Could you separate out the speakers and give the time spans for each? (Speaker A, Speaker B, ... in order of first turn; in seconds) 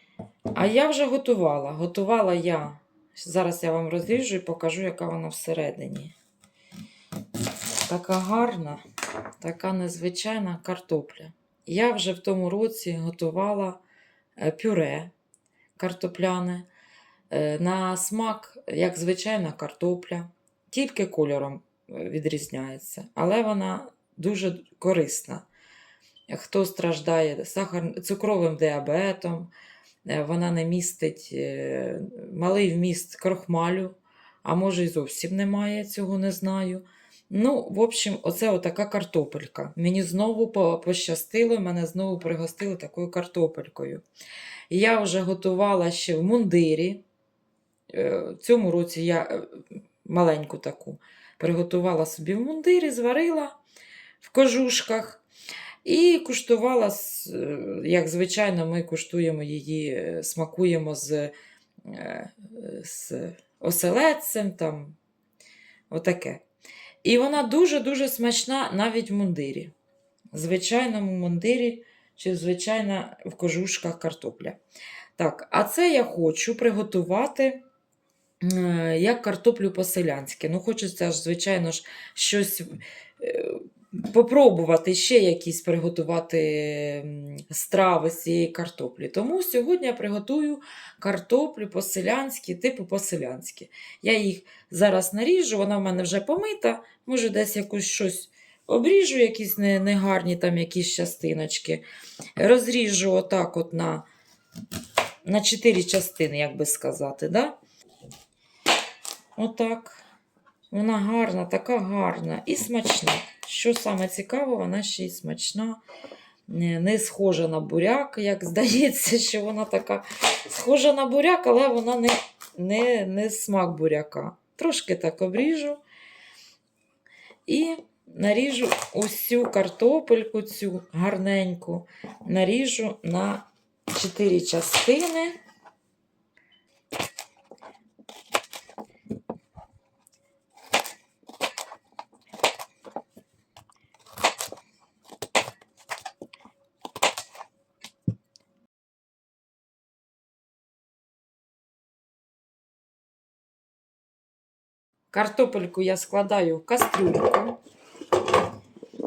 Speaker A: 0.5-6.1, 7.8-8.8, 9.4-13.8, 14.4-15.1, 15.8-16.7, 17.3-25.4, 26.3-29.5, 30.0-44.0, 44.7-47.0, 47.9-53.6, 54.2-55.2, 55.8-65.0, 65.9-66.4, 67.0-69.7, 70.3-74.6, 75.2-77.6, 78.4-101.8, 102.3-104.0, 105.2-107.5, 109.3-110.0, 110.7-115.8, 116.5-125.8, 127.5-135.4, 155.1-157.6